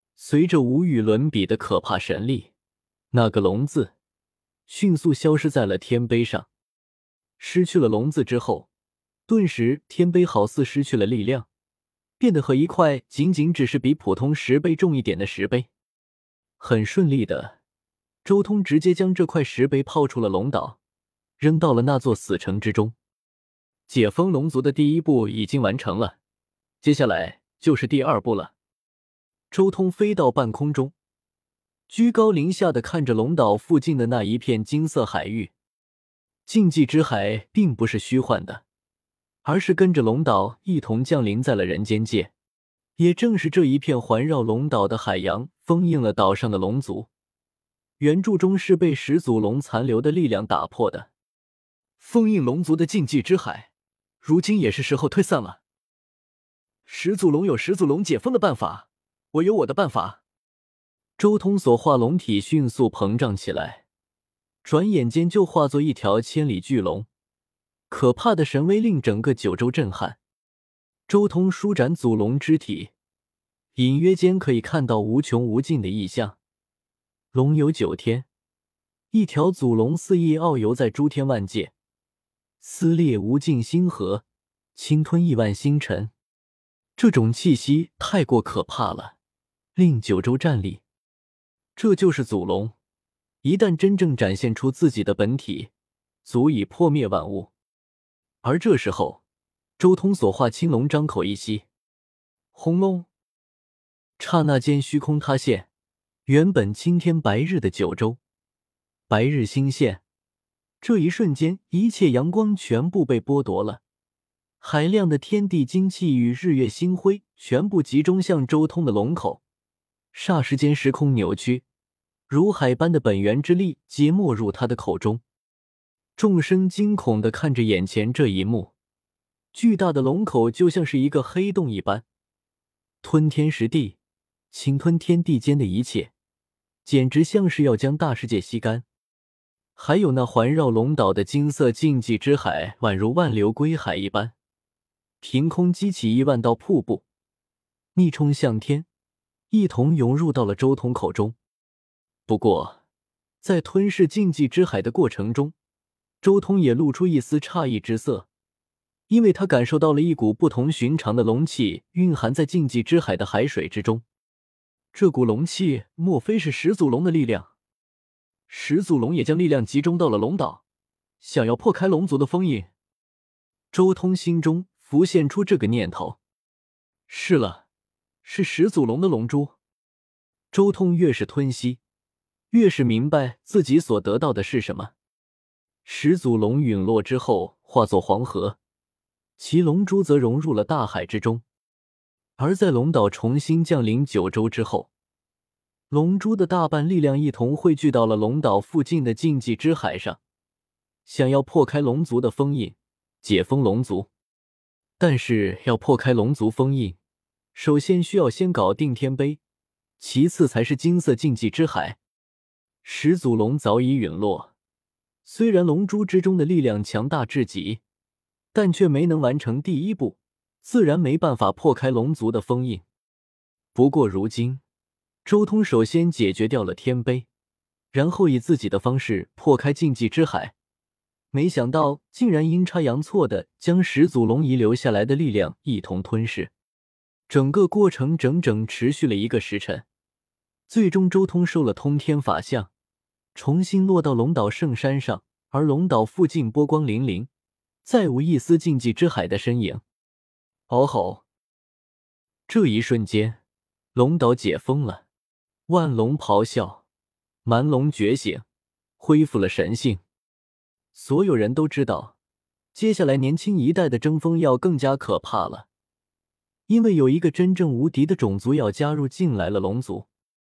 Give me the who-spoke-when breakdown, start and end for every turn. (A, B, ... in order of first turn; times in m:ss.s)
0:00.2-0:02.5 A
0:03.1-0:03.9 A
0:04.7-0:06.5 A
0:07.4-0:08.7 A
0:09.3-0:11.5 A
0:12.2-0:15.7 A
0:16.6-0:17.6 A
0:18.2-0:20.8 A
0:21.4-0:22.9 A
0:23.9-0:26.2 A
0:26.8-0:28.5 A
0:29.5-0:30.9 A
0:31.9-0:35.5 A
0:36.5-0:38.6 A
0:39.4-0:42.3 A
0:43.0-0:47.1 A
0:48.0-0:51.1 A
0:52.0-0:53.7 A
0:54.2-0:55.6 A
0:56.9-1:00.2 A
1:01.2-1:03.8 A
1:04.6-1:07.1 A
1:07.9-1:10.2 A
1:11.1-1:12.9 A
1:13.8-1:16.4 A
1:17.3-1:18.3 A
1:19.1-1:21.7 A
1:22.6-1:26.1 A
1:27.0-1:29.2 A
1:29.8-1:30.8 A
1:31.8-1:32.8 A
1:33.4-1:35.7 A
1:36.2-1:37.5 A
1:38.4-1:39.2 A
1:39.8-1:41.7 A
1:42.5-1:43.1 A
1:44.2-1:45.7 A
1:46.3-1:48.2 A
1:49.1-1:50.0 A
1:50.8-1:53.8 A
1:54.6-1:59.4 A
2:00.1-2:01.6 A
2:02.3-2:05.2 A
2:06.2-2:08.7 A
2:09.5-2:12.0 A
2:13.0-2:14.0 A
2:14.5-2:16.1 A
2:16.8-2:18.8 A
2:19.8-2:24.4 A
2:25.2-2:27.0 A
2:28.0-2:28.9 A
2:29.5-2:31.4 A
2:32.3-2:32.8 A
2:33.4-2:35.5 A
2:36.2-2:38.3 A
2:39.1-2:44.0 A
2:44.9-2:47.5 A
2:48.5-2:50.6 A
2:51.2-2:52.7 A
2:53.7-2:56.2 A
2:57.1-2:57.6 A
2:58.2-2:59.6 A
3:00.5-3:01.8 A
3:02.5-3:04.9 A
3:05.8-3:08.6 A
3:09.4-3:11.4 A
3:12.4-3:14.9 A
3:15.9-3:20.2 A
3:21.1-3:24.1 A
3:25.0-3:27.0 A
3:27.6-3:29.4 A
3:30.0-3:32.0 A
3:32.8-3:34.5 A
3:35.2-3:37.8 A
3:38.5-3:42.8 A
3:43.8-3:44.6 A
3:45.2-3:47.3 A
3:47.9-3:50.5 A
3:51.3-3:56.5 A
3:57.3-3:59.8 A
4:00.7-4:02.7 A
4:03.4-4:07.3 A
4:07.8-4:09.8 A
4:10.7-4:11.2 A
4:12.5-4:13.4 A
4:14.0-4:15.0 A
4:15.7-4:16.8 A
4:17.4-4:18.4 A
4:19.0-4:20.0 A
4:20.9-4:22.2 A
4:22.7-4:25.7 A
4:26.7-4:30.1 A